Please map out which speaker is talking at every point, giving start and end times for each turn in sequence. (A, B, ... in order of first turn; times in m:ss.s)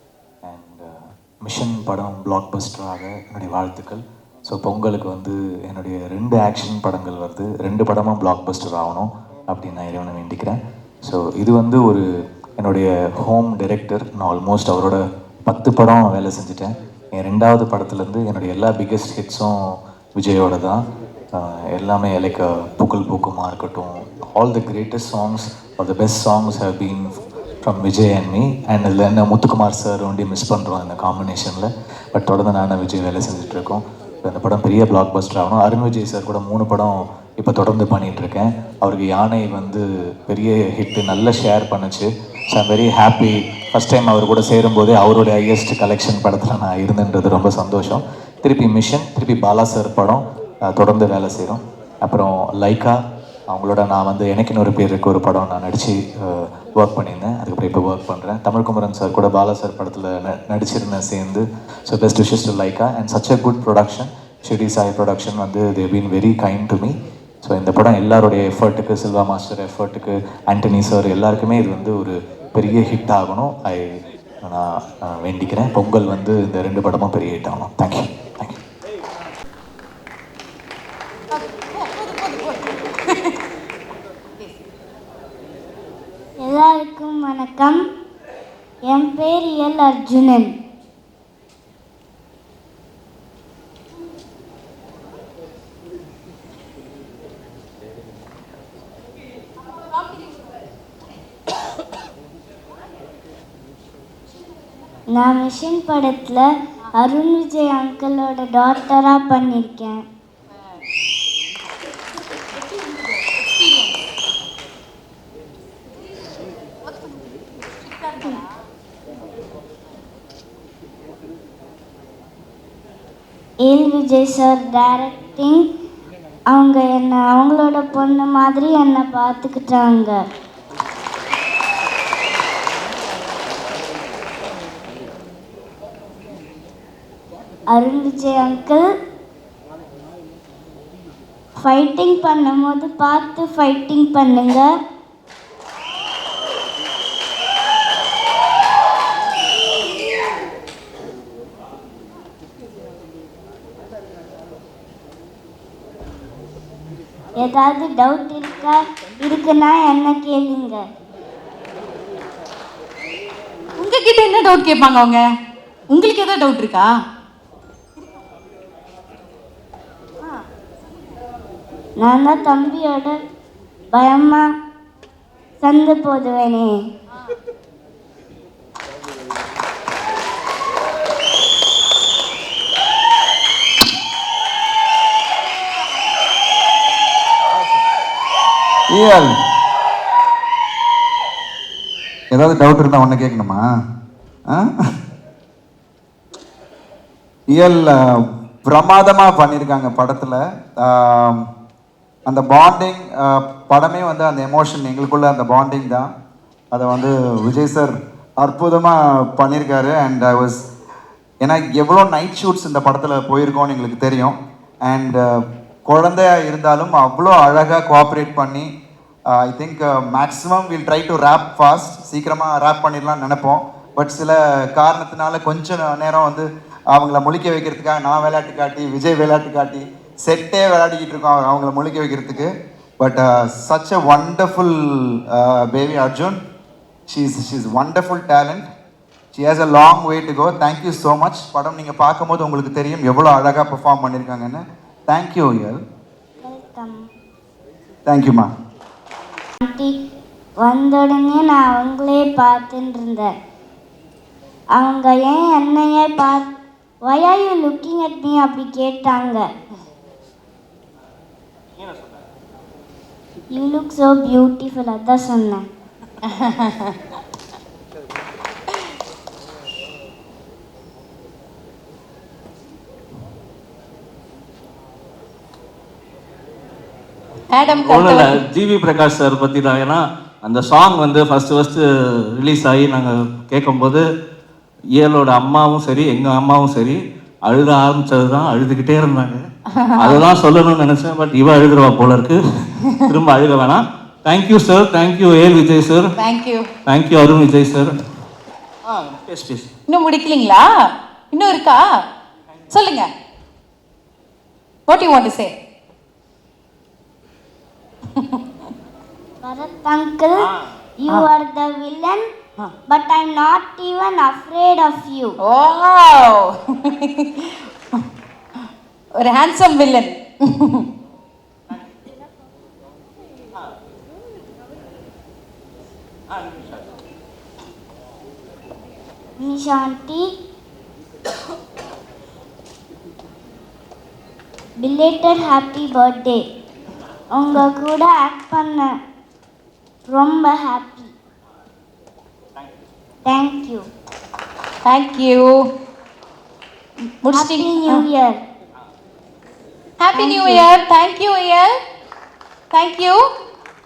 0:00.4-0:12.0 A
0:12.6-0:19.6 A
0:20.2-0:20.8 A
0:21.3-0:53.0 A
0:53.5-1:06.9 A
1:07.4-1:18.6 A
1:21.3-1:23.4 B
1:26.4-1:27.8 C
1:28.9-1:30.5 C
1:40.0-1:40.4 B
1:45.1-1:46.4 C
1:47.0-1:50.0 C
1:53.0-1:54.0 B
1:56.8-1:57.2 B
1:57.8-1:58.5 B
2:03.6-2:05.6 C
2:06.5-2:10.2 C
2:17.7-2:18.8 C
2:21.6-2:24.7 C
2:37.4-2:40.8 C
2:43.8-2:45.2 B
2:45.9-2:46.9 B
2:52.0-2:53.1 C
2:53.9-2:54.4 C
2:55.6-2:56.7 C
3:08.9-3:09.3 D
3:12.3-3:13.6 D
3:17.5-3:21.4 D
3:22.3-3:26.1 D
3:26.7-3:30.6 D
3:31.4-3:38.7 D
3:39.3-3:56.4 D
3:57.1-3:58.7 D
3:59.3-4:05.8 D
4:06.4-4:07.0 C
4:08.0-4:08.5 D
4:09.6-4:09.9 C
4:10.6-4:13.3 C
4:14.8-4:16.4 C
4:17.1-4:19.4 C
4:23.5-4:25.6 C
4:26.3-4:26.9 B
4:37.5-4:38.4 B
4:37.6-4:44.0 E
4:44.9-4:49.4 E
4:49.8-4:50.3 B
4:50.0-4:52.4 E
4:53.1-4:56.1 E
4:56.2-4:56.7 B
4:56.9-4:57.9 E
4:58.9-4:59.7 E
4:59.9-5:00.7 B
5:01.3-5:01.8 B
5:02.7-5:03.1 B
5:04.9-5:05.6 B
5:09.4-5:12.2 C
5:12.9-5:15.4 C
5:15.4-5:17.6 B
5:19.2-5:20.8 B
5:29.4-5:30.2 C
5:34.8-5:36.4 C
5:37.3-5:38.9 C
5:40.1-5:41.1 C
5:43.2-5:43.8 C
5:44.8-5:45.6 B
5:47.2-5:48.0 B
5:47.3-5:48.4 C
5:50.0-5:51.8 B
5:50.1-5:50.6 C
5:52.7-5:53.2 B